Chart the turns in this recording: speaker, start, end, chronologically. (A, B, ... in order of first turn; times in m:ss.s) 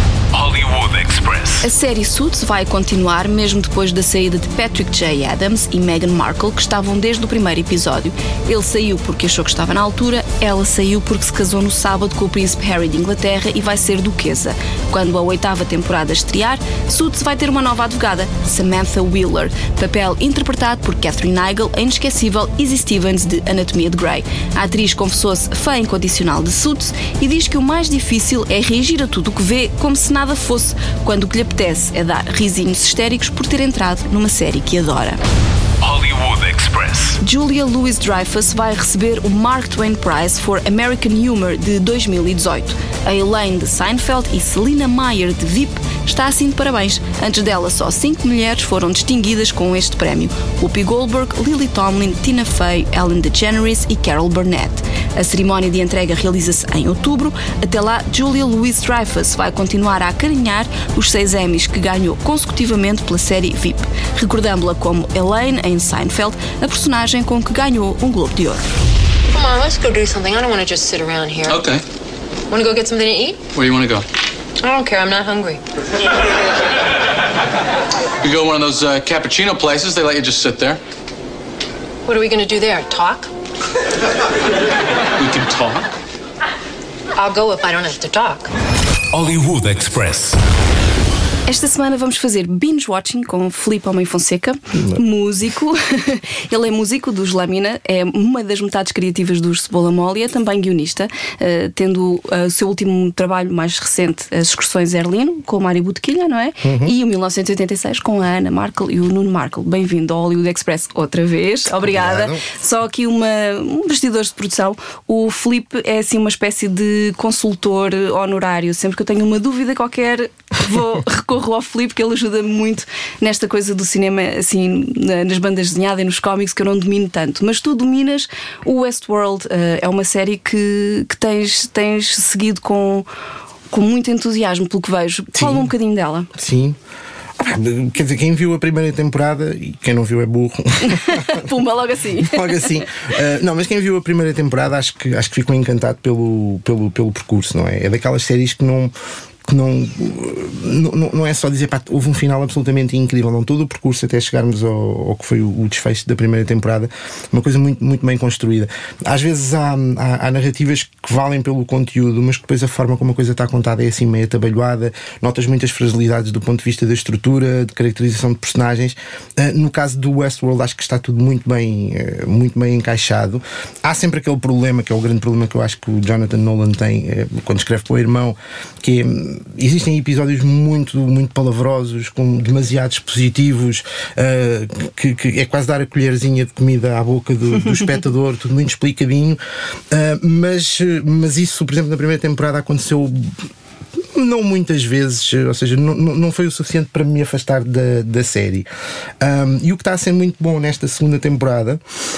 0:00.3-0:01.7 A
0:01.6-0:35.2 B
0:35.8-0:37.2 A
0:37.2-1:08.6 B
1:09.3-1:11.6 C
1:11.5-1:11.8 D
1:12.5-1:13.4 C
1:13.5-1:14.0 D
1:14.6-1:15.6 C
1:18.2-1:20.8 D
1:22.0-1:23.3 C
1:25.2-1:25.8 D
1:27.1-1:28.5 C
1:29.1-1:30.4 A
1:31.5-2:13.1 B
1:34.7-1:35.0 E
1:46.6-1:46.9 E
1:51.8-1:52.4 E
2:13.7-2:16.3 B
2:15.3-2:15.7 E
2:16.3-2:16.8 E
2:17.4-2:21.5 E
2:20.8-2:22.8 B
2:22.2-2:28.9 E
2:29.5-3:09.4 E
3:09.9-3:13.3 E
3:14.1-3:18.7 E
3:19.2-3:21.8 E